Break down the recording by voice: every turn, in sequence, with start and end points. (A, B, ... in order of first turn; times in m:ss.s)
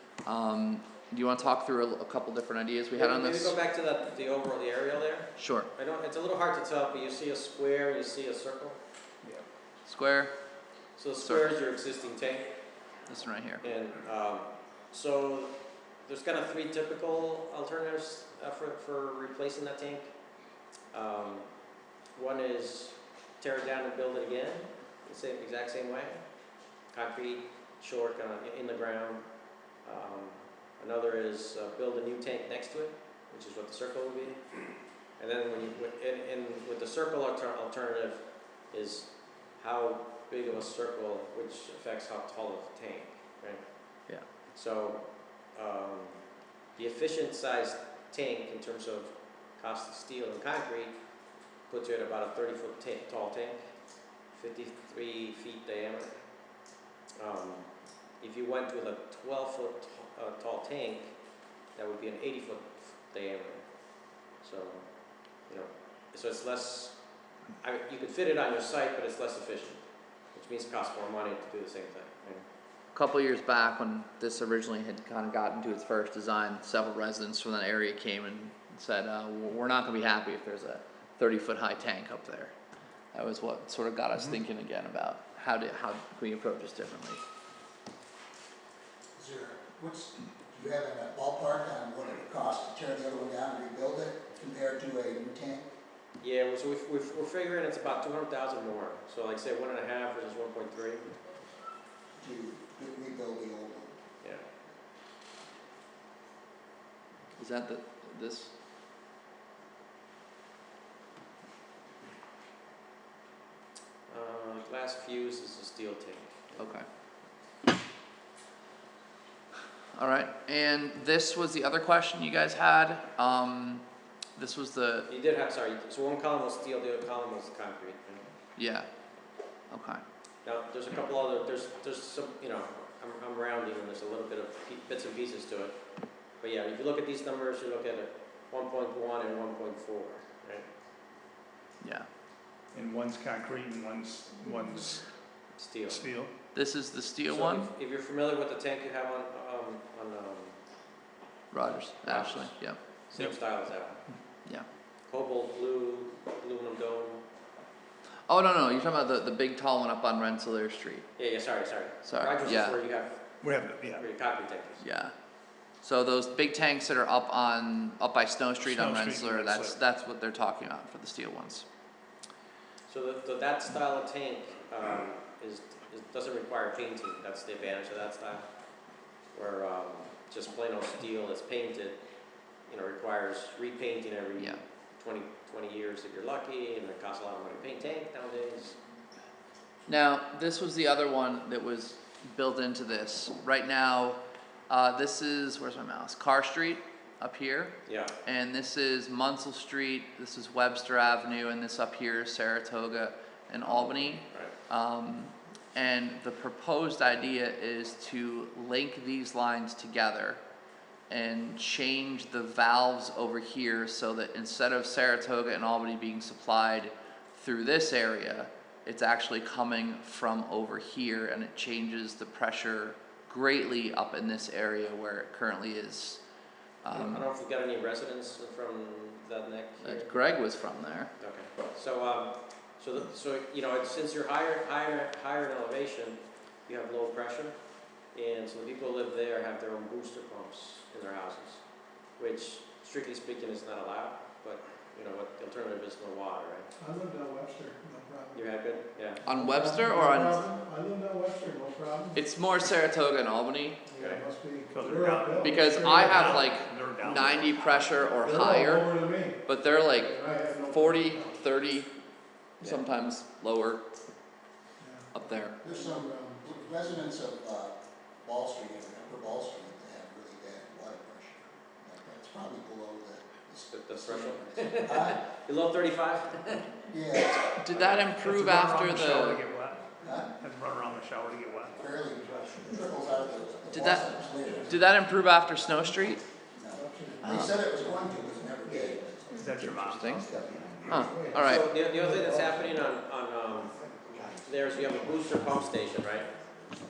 0:00.2-0:03.6 A
0:03.0-0:08.8 B
0:05.4-0:05.7 A
0:09.8-0:10.3 A
0:11.0-0:12.6 B
0:11.2-0:11.5 A
0:13.1-0:13.7 A
0:13.6-0:20.1 B
0:20.9-0:21.5 B
0:22.2-0:26.2 B
0:26.9-0:29.3 B
0:29.8-0:34.6 B
0:35.2-0:46.2 B
0:46.8-0:51.0 B
0:51.7-0:53.6 B
0:54.3-0:56.2 B
0:57.2-1:01.2 B
1:01.8-1:07.0 B
1:07.6-1:09.8 B
1:10.3-1:12.4 B
1:12.9-1:22.5 A
1:23.1-1:27.2 A
1:29.2-1:35.7 C
1:36.2-1:41.1 B
1:42.2-1:43.9 C
1:47.4-1:48.5 A
1:54.1-1:56.6 B
1:56.6-1:56.8 A
2:00.0-2:03.8 A
2:04.4-2:05.1 A
2:05.1-2:08.3 B
2:08.6-2:08.9 A
2:09.7-2:10.0 A
2:10.4-2:15.8 B
2:16.4-2:20.7 B
2:21.8-2:22.1 A
2:22.7-2:25.1 D
2:25.6-2:26.0 B
2:25.9-2:26.3 D
2:26.5-2:27.7 A
2:27.3-2:30.6 B
2:31.5-2:32.8 A
2:32.0-2:32.6 B
2:33.1-2:34.0 B
2:35.1-2:37.2 B
2:38.3-2:41.1 A
2:41.2-2:43.4 B
2:42.0-2:42.8 A
2:43.4-2:44.1 D
2:44.0-2:44.8 B
2:44.8-2:45.1 A
2:45.8-2:51.7 A
2:48.6-2:49.8 D
2:52.9-2:58.5 B
2:59.3-3:02.0 B
3:02.7-3:08.8 B
3:09.9-3:30.4 A
3:17.9-3:18.2 B
3:23.6-3:24.5 B
3:31.1-3:46.2 A
3:46.8-3:47.3 A
3:46.9-3:50.2 B
3:49.8-3:51.1 A
3:51.2-4:06.7 B
4:06.8-4:08.5 E
4:08.3-4:09.2 B
4:09.2-4:12.2 E
4:09.3-4:10.4 A
4:12.2-4:13.8 A
4:13.9-4:16.4 E
4:14.0-4:14.2 B
4:14.7-4:17.8 D
4:15.4-4:21.9 A
4:17.0-4:17.4 E
4:18.2-4:21.4 E
4:22.6-4:23.8 A
4:24.8-4:27.0 E
4:25.1-4:25.6 A
4:25.6-4:35.2 C
4:33.7-4:36.8 B
4:36.9-4:37.5 C
4:37.4-4:39.4 A
4:37.7-4:41.8 D
4:40.0-4:40.3 C
4:41.7-4:44.9 C
4:43.7-4:46.2 A
4:46.5-4:49.4 C
4:46.7-4:48.1 E
4:47.2-4:47.5 A
4:48.6-4:49.0 E
4:49.3-4:50.5 D
4:49.6-4:50.3 A
4:50.2-4:50.6 C
4:50.8-4:51.7 A
4:51.0-4:52.8 E
4:51.3-4:53.8 B
4:54.4-4:56.3 B